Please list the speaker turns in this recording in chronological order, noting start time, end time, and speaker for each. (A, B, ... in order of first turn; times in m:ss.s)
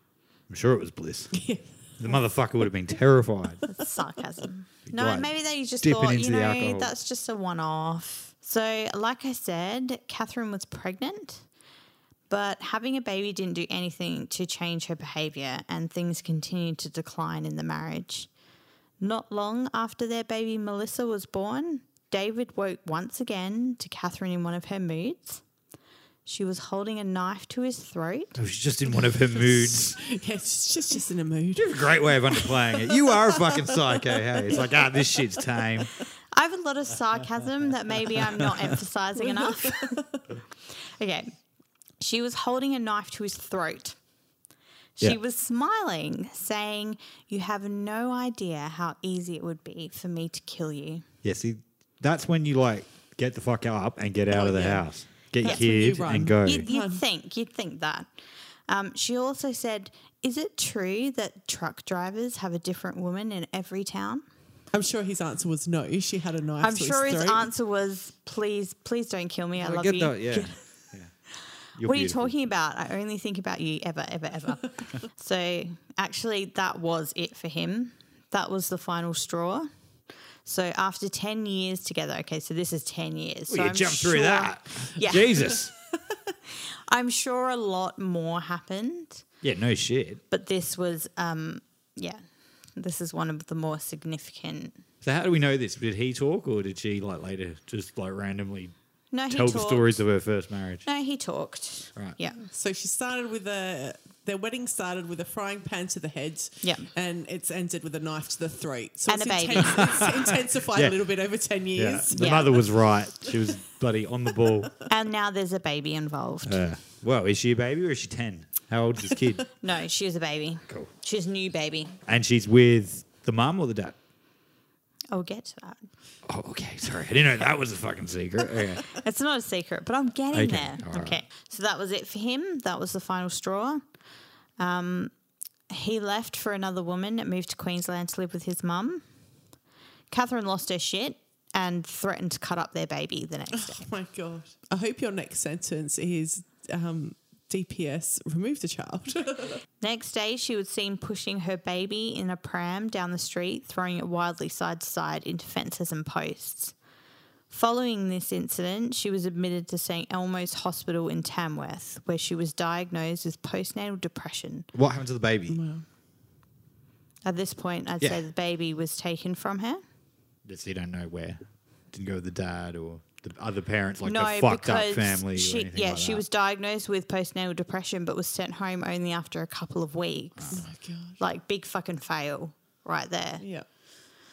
0:00.5-0:01.3 A
0:01.3-0:02.2 B
0:02.0-0:03.6 A
0:03.7-0:11.4 C
0:04.9-0:05.3 A
0:05.8-0:06.9 A
0:12.3-0:18.3 C
0:19.0-0:25.4 C
0:26.3-0:28.4 C
0:28.4-0:30.0 A
0:29.4-0:35.9 B
0:31.6-0:35.9 A
0:36.3-0:40.0 C
0:38.4-0:38.7 A
0:39.2-0:40.2 B
0:41.0-0:41.3 C
0:42.0-0:44.0 C
0:45.0-0:51.0 C
0:51.2-0:56.7 A
0:54.3-0:57.0 B
0:55.4-0:55.7 C
0:56.4-0:58.1 C
0:58.7-1:04.2 C
1:04.7-1:07.5 B
1:06.6-1:10.6 C
1:09.6-1:11.1 A
1:11.8-1:12.3 A
1:11.8-1:19.7 C
1:20.4-1:25.5 C
1:23.5-1:25.7 A
1:26.9-1:29.2 C
1:29.4-1:30.2 A
1:30.3-1:32.2 C
1:32.8-1:34.8 C
1:35.0-1:38.7 A
1:39.1-1:40.0 C
1:39.3-1:40.8 A
1:40.8-1:42.4 C
1:42.4-1:52.5 B
1:46.6-1:46.9 C
1:49.1-1:50.0 C
1:49.8-1:51.0 A
1:51.8-1:54.7 A
1:52.2-1:52.6 C
1:54.9-1:56.6 C
1:56.4-1:59.4 A
1:59.6-2:02.0 C
2:02.1-2:04.0 A
2:05.1-2:05.9 C
2:06.2-2:08.9 A
2:08.9-2:13.8 C
2:10.3-2:11.2 A
2:14.6-2:15.1 C
2:15.7-2:19.0 C
2:20.1-2:23.9 C
2:23.5-2:29.6 B
2:29.8-2:36.8 C
2:37.5-2:44.7 C
2:44.7-2:45.6 A
2:45.5-2:45.8 B
2:47.2-2:49.8 C
2:50.5-2:51.4 A
2:51.9-2:56.2 A
2:54.0-3:00.7 C
3:00.4-3:00.6 A
3:00.5-3:01.2 B
3:01.2-3:03.4 C
3:03.4-3:03.6 B